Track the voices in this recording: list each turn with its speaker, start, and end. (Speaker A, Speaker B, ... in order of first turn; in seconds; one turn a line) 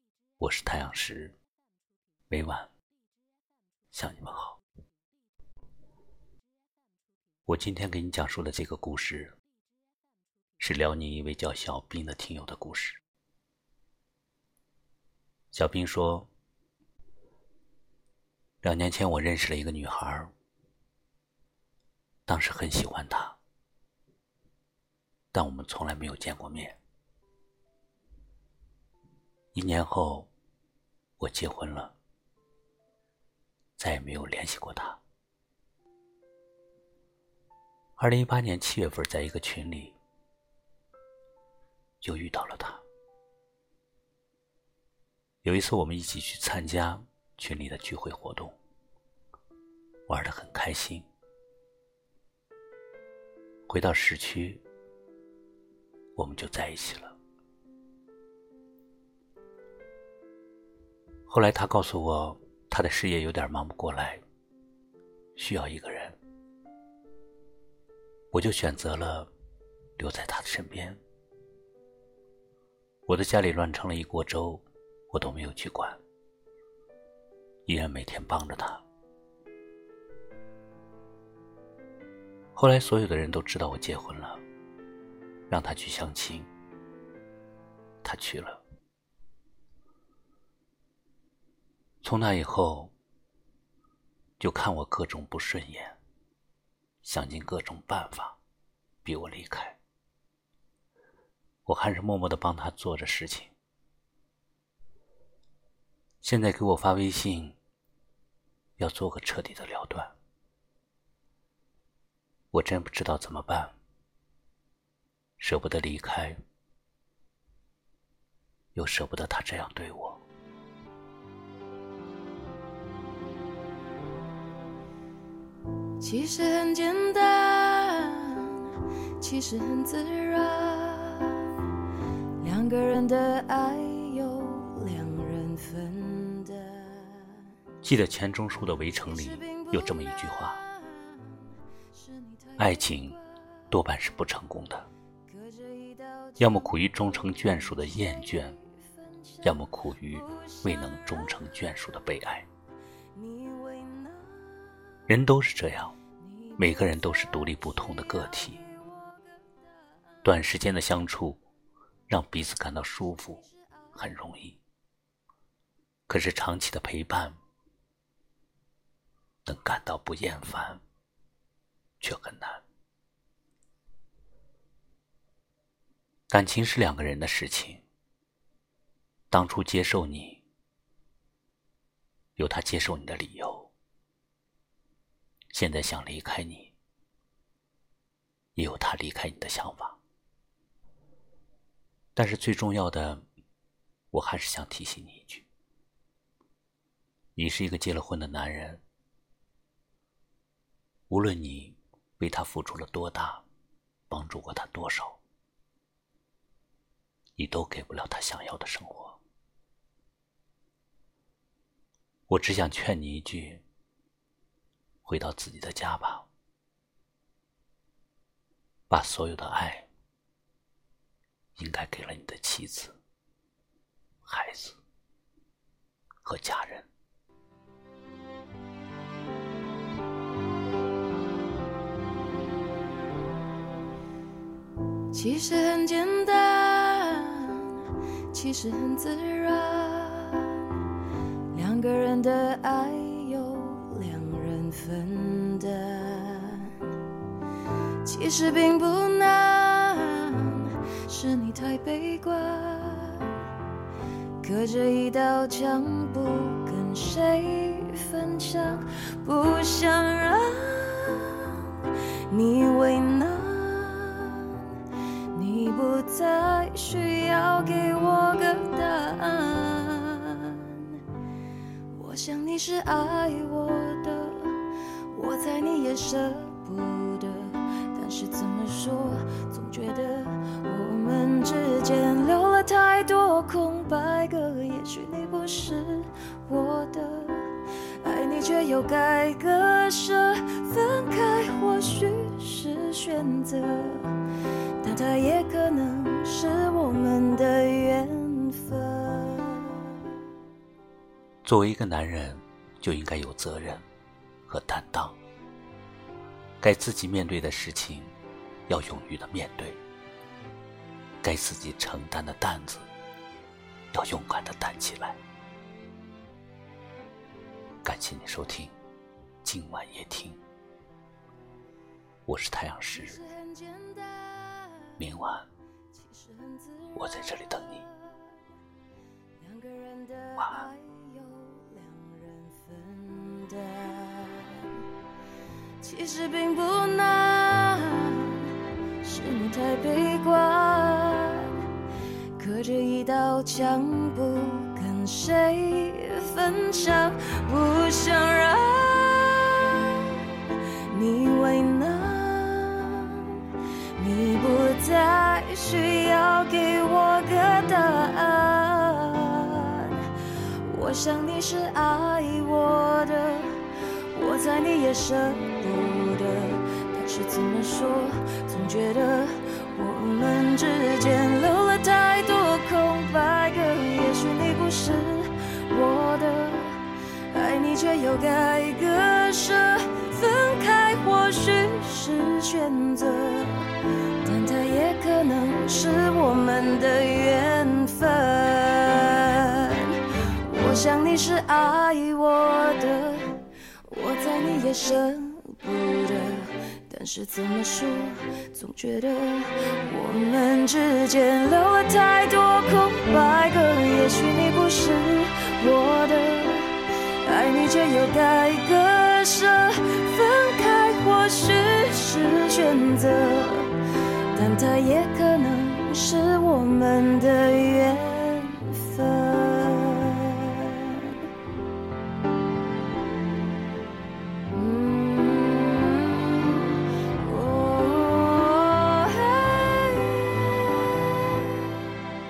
Speaker A: 0.4-1.4
Speaker A: 2.3-2.7
Speaker A: 3.9-4.6
Speaker A: 7.5-9.3
Speaker A: 10.6-13.0
Speaker A: 15.5-16.3
Speaker A: 18.6-20.3
Speaker A: 22.3-23.4
Speaker A: 25.3-26.8
Speaker A: 29.5-30.3
Speaker A: 31.2-31.9
Speaker A: 33.8-35.0
Speaker A: 38.0-40.0
Speaker A: 42.0-42.8
Speaker A: 45.4-48.5
Speaker A: 50.1-51.1
Speaker A: 53.7-54.6
Speaker A: 56.1-57.2
Speaker A: 61.3-64.2
Speaker A: 65.3-66.2
Speaker A: 68.3-69.3
Speaker A: 70.0-71.0
Speaker A: 73.1-76.0
Speaker A: 77.7-78.8
Speaker A: 82.5-84.4
Speaker A: 85.5-86.5
Speaker A: 88.0-88.6
Speaker A: 92.0-92.9
Speaker A: 94.4-96.0
Speaker A: 97.0-98.4
Speaker A: 99.0-99.8
Speaker A: 101.7-103.5
Speaker A: 106.2-107.5
Speaker A: 108.8-110.1
Speaker A: 112.5-113.7
Speaker A: 115.4-116.4
Speaker A: 118.7-120.2
Speaker B: 126.0-131.7
Speaker B: 132.4-137.5
Speaker A: 137.8-140.6
Speaker B: 139.1-143.4
Speaker A: 142.6-143.2
Speaker A: 143.7-144.9
Speaker B: 145.3-151.7
Speaker A: 146.4-148.6
Speaker A: 149.4-152.5
Speaker B: 153.1-155.1
Speaker A: 155.1-155.9
Speaker B: 156.2-160.2
Speaker A: 156.6-158.6
Speaker A: 160.2-161.4
Speaker A: 162.1-163.4
Speaker B: 163.3-163.9
Speaker A: 163.9-164.6
Speaker A: 166.1-167.4
Speaker A: 169.4-170.8
Speaker A: 172.0-172.6
Speaker A: 176.3-177.8
Speaker A: 179.3-180.4
Speaker A: 182.4-183.7
Speaker A: 185.5-186.7
Speaker A: 188.6-190.0
Speaker A: 192.2-193.2
Speaker A: 194.1-195.5
Speaker A: 197.3-198.8
Speaker A: 201.1-203.4
Speaker A: 204.1-205.2
Speaker A: 207.4-209.2
Speaker A: 212.3-213.6
Speaker A: 215.0-216.3
Speaker A: 218.9-219.9
Speaker A: 221.6-223.0
Speaker A: 224.2-224.8
Speaker A: 226.2-226.9
Speaker B: 235.1-240.8
Speaker B: 241.5-246.9
Speaker B: 248.0-253.4
Speaker B: 254.4-271.0
Speaker B: 271.9-300.1
Speaker A: 301.4-303.8
Speaker A: 304.5-305.2
Speaker A: 306.6-308.1
Speaker A: 308.7-309.8
Speaker A: 311.2-312.9
Speaker A: 313.9-315.2
Speaker A: 317.8-318.7
Speaker A: 319.4-320.4
Speaker A: 322.2-323.2
Speaker B: 322.9-325.0
Speaker A: 325.0-325.5
Speaker B: 325.9-328.4
Speaker A: 326.9-327.8
Speaker B: 329.4-334.8
Speaker A: 330.4-330.6
Speaker B: 335.8-341.7
Speaker B: 342.4-421.2
Speaker B: 424.5-432.0